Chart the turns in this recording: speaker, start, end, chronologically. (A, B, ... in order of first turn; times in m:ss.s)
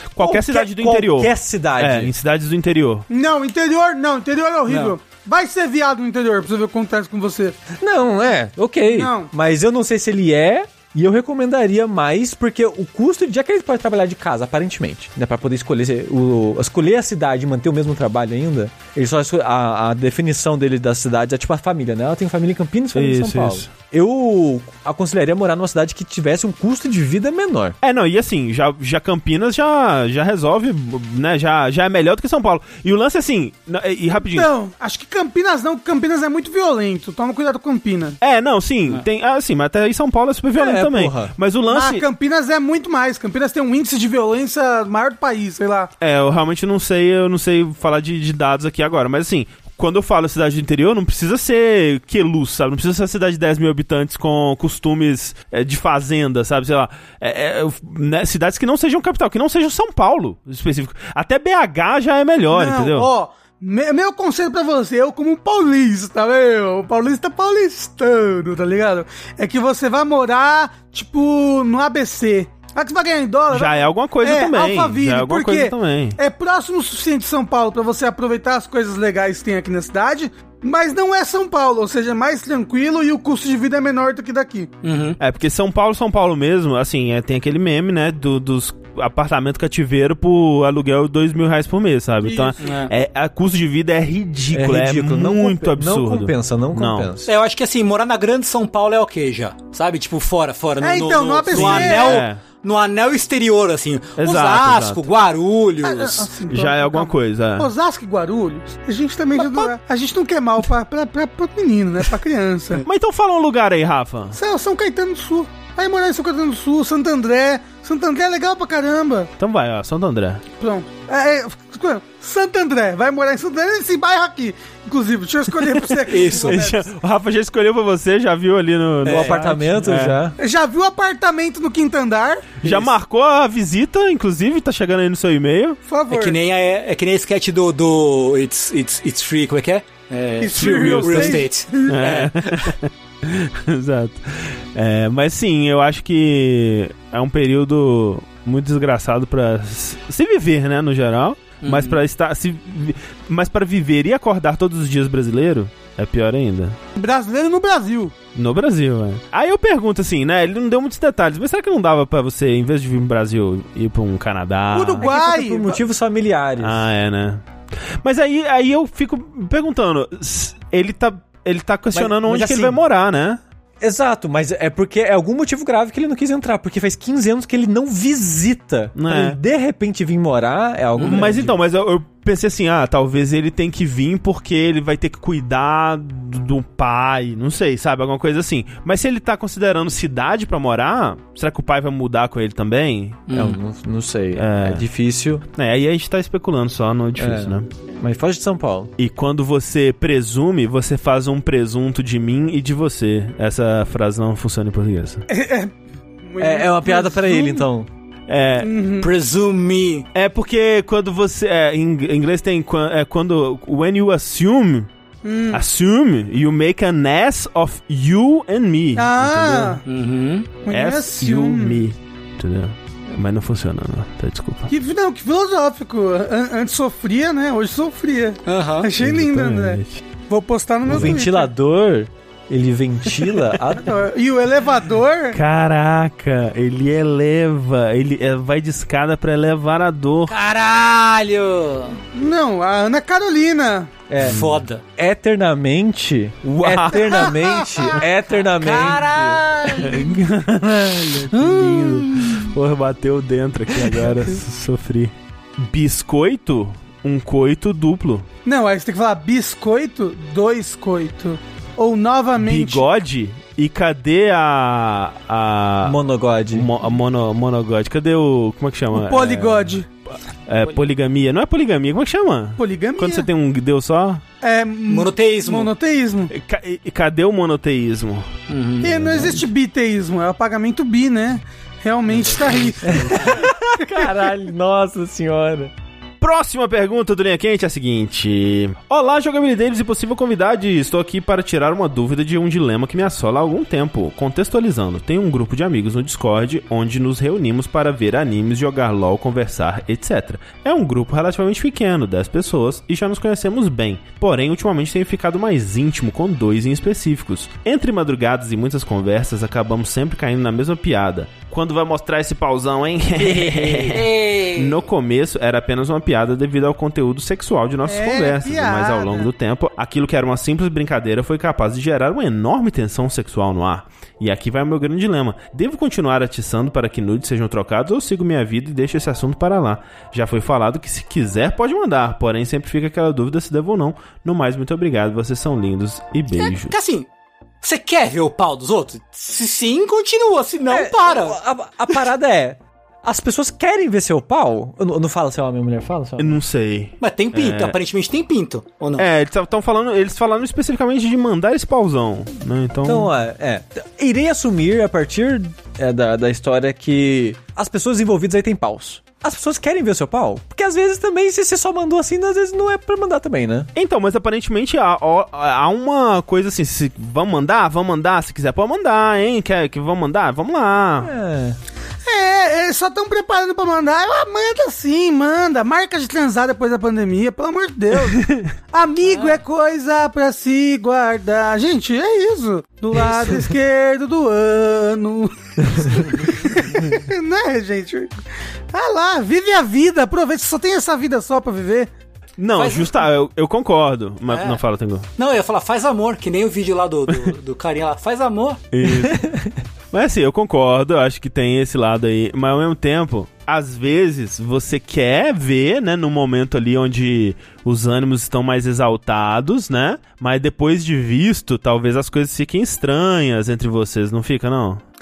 0:00.1-0:03.1 A
0:00.2-0:02.1 B
0:03.1-0:07.6 C
0:07.8-0:27.8 B
0:08.9-0:09.3 C
0:22.9-0:23.7 A
0:27.8-0:34.5 A
0:34.2-0:38.2 C
0:38.2-0:42.0 A
0:40.5-0:41.3 B
0:41.7-0:45.9 C
0:46.0-1:03.1 A
1:02.5-1:24.7 C
1:13.5-1:16.2 A
1:24.8-1:25.2 D
1:25.2-1:37.1 A
1:32.2-1:32.6 C
1:32.6-1:32.9 D
1:34.5-1:37.3 B
1:37.2-1:46.3 D
1:40.8-1:42.3 C
1:41.5-1:42.4 A
1:44.2-1:45.0 A
1:45.8-1:52.8 C
1:46.5-1:47.7 A
1:49.4-1:49.7 A
1:52.8-1:54.4 A
1:54.3-1:59.3 C
1:59.4-2:00.4 A
2:00.6-2:06.9 C
2:05.8-2:10.2 A
2:06.1-2:06.6 D
2:09.0-2:09.4 D
2:09.1-2:10.4 B
2:10.4-2:12.5 C
2:12.6-2:15.8 A
2:12.6-2:12.9 D
2:15.8-2:16.4 C
2:16.1-2:22.7 D
2:20.4-2:22.0 C
2:20.6-2:36.8 A
2:31.6-2:32.0 D
2:37.0-2:38.1 C
2:38.4-2:45.1 A
2:44.7-2:45.8 C
2:45.0-2:46.9 B
2:46.6-2:47.4 A
2:48.0-2:53.4 A
2:51.9-2:52.8 B
2:53.8-3:01.6 B
2:59.0-2:59.4 A
3:01.0-3:01.3 D
3:01.0-3:13.2 A
3:13.3-3:13.6 D
3:13.3-3:15.4 B
3:14.4-3:14.9 A
3:15.5-3:17.7 A
3:17.2-3:18.9 B
3:19.0-3:25.3 A
3:25.3-3:27.7 C
3:26.4-3:27.9 B
3:28.3-3:28.7 A
3:28.6-3:29.1 C
3:29.0-3:30.1 D
3:30.1-3:34.9 A
3:35.2-3:35.6 C
3:35.5-3:39.8 A
3:39.0-3:39.8 C
3:39.9-3:40.5 D
3:40.6-3:41.8 C
3:40.7-3:44.7 A
3:44.7-3:51.5 C
3:48.5-3:48.9 D
3:49.0-3:50.0 A
3:50.8-3:53.9 B
3:50.9-3:51.2 A
3:53.8-3:55.4 C
3:55.3-4:00.3 A
4:00.3-4:02.0 D
4:02.2-4:03.9 C
4:04.1-4:04.4 B
4:04.2-4:04.8 D
4:04.2-4:04.6 A
4:05.0-4:09.4 B
4:06.6-4:07.4 A
4:07.0-4:07.9 C
4:08.0-4:10.0 D
4:09.8-4:18.3 A
4:11.3-4:12.5 D
4:18.4-4:22.9 C
4:22.4-4:26.0 A
4:25.8-4:26.7 B
4:26.5-4:34.2 A
4:28.9-4:29.9 C
4:32.6-4:33.3 C
4:34.4-4:36.3 C
4:34.9-4:35.7 D
4:36.3-4:38.3 A
4:38.5-4:39.3 D
4:38.8-4:44.0 C
4:38.8-4:39.5 A
4:42.1-4:43.4 D
4:42.8-4:45.7 B
4:46.2-5:36.7 A
5:13.2-5:14.0 B
5:13.9-5:14.8 D
5:17.8-5:19.3 C
5:36.3-5:37.1 D
5:37.6-5:41.4 D
5:40.7-5:46.4 B
5:46.2-5:47.8 A
5:47.0-5:49.1 D
5:49.0-5:53.1 A
5:52.8-6:03.7 B
6:03.8-6:11.1 A
6:11.0-6:11.6 B
6:12.0-6:31.9 C
6:18.1-6:18.5 A
6:19.1-6:19.4 D
6:26.0-6:26.3 D
6:32.4-6:35.1 A
6:32.6-6:33.0 D
6:34.3-6:34.6 D
6:35.2-6:38.6 D
6:38.7-6:39.3 A
6:38.9-6:39.6 B
6:39.9-6:54.8 A